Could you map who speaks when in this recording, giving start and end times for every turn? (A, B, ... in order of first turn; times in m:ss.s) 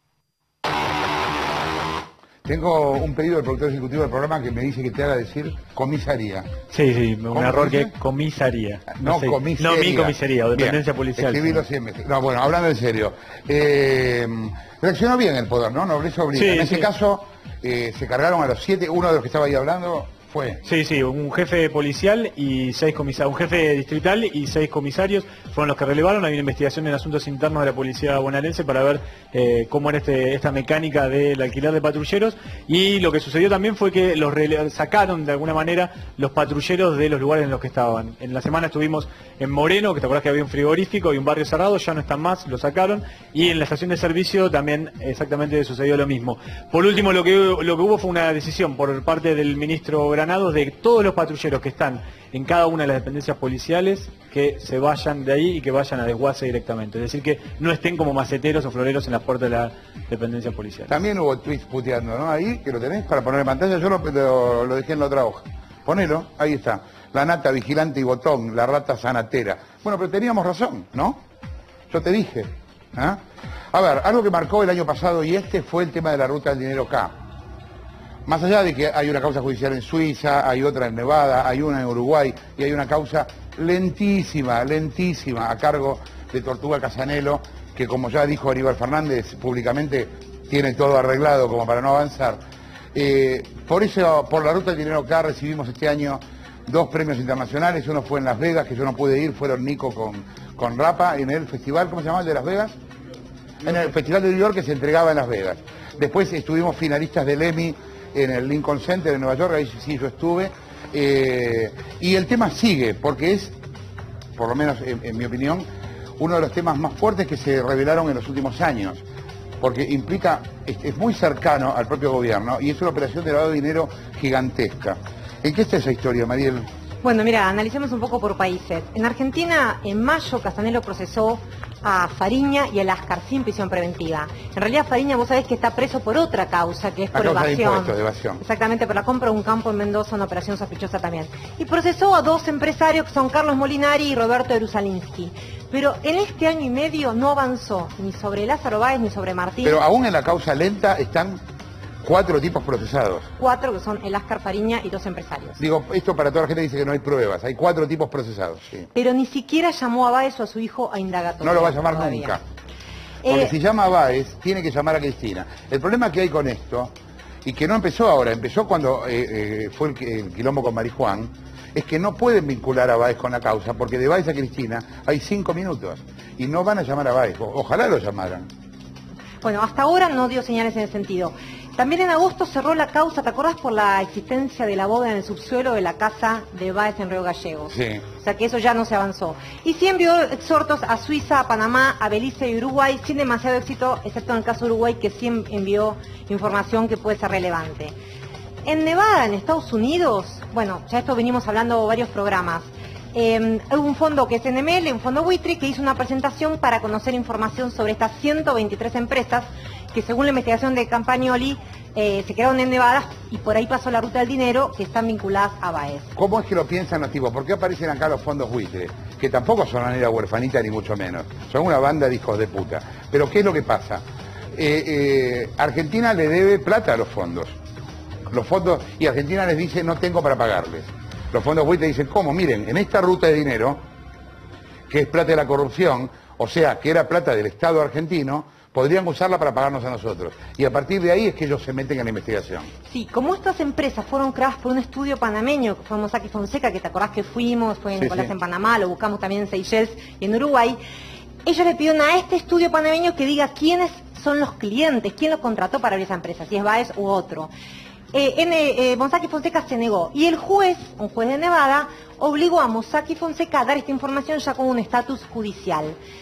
0:02.4-0:06.5 A
0:06.7-0:11.6 B
0:07.3-0:07.9 A
0:08.9-0:20.6 A
0:16.3-0:16.9 B
0:20.6-1:01.0 B
1:00.9-1:11.2 A
1:11.9-1:13.2 A
1:13.7-1:17.2 A
1:18.3-1:32.4 A
1:32.9-1:42.8 A
1:43.6-1:53.6 A
1:54.4-1:55.7 A
1:56.2-1:59.0 A
1:59.6-2:06.7 A
2:07.0-2:29.8 C
2:17.1-2:18.4 A
2:29.6-2:31.4 A
2:32.0-2:33.3 A
2:33.4-2:35.6 C
2:35.6-2:38.9 A
2:39.0-2:42.4 C
2:41.4-2:42.4 A
2:43.2-2:43.5 C
2:43.3-2:58.5 A
2:59.4-3:17.9 C
3:07.7-3:08.0 A
3:18.7-3:36.1 C
3:36.2-3:47.6 A
3:48.3-3:53.8 A
3:54.9-4:02.7 A
4:02.9-4:10.8 C
4:08.0-4:08.3 A
4:11.5-4:17.5 C
4:18.1-4:26.0 C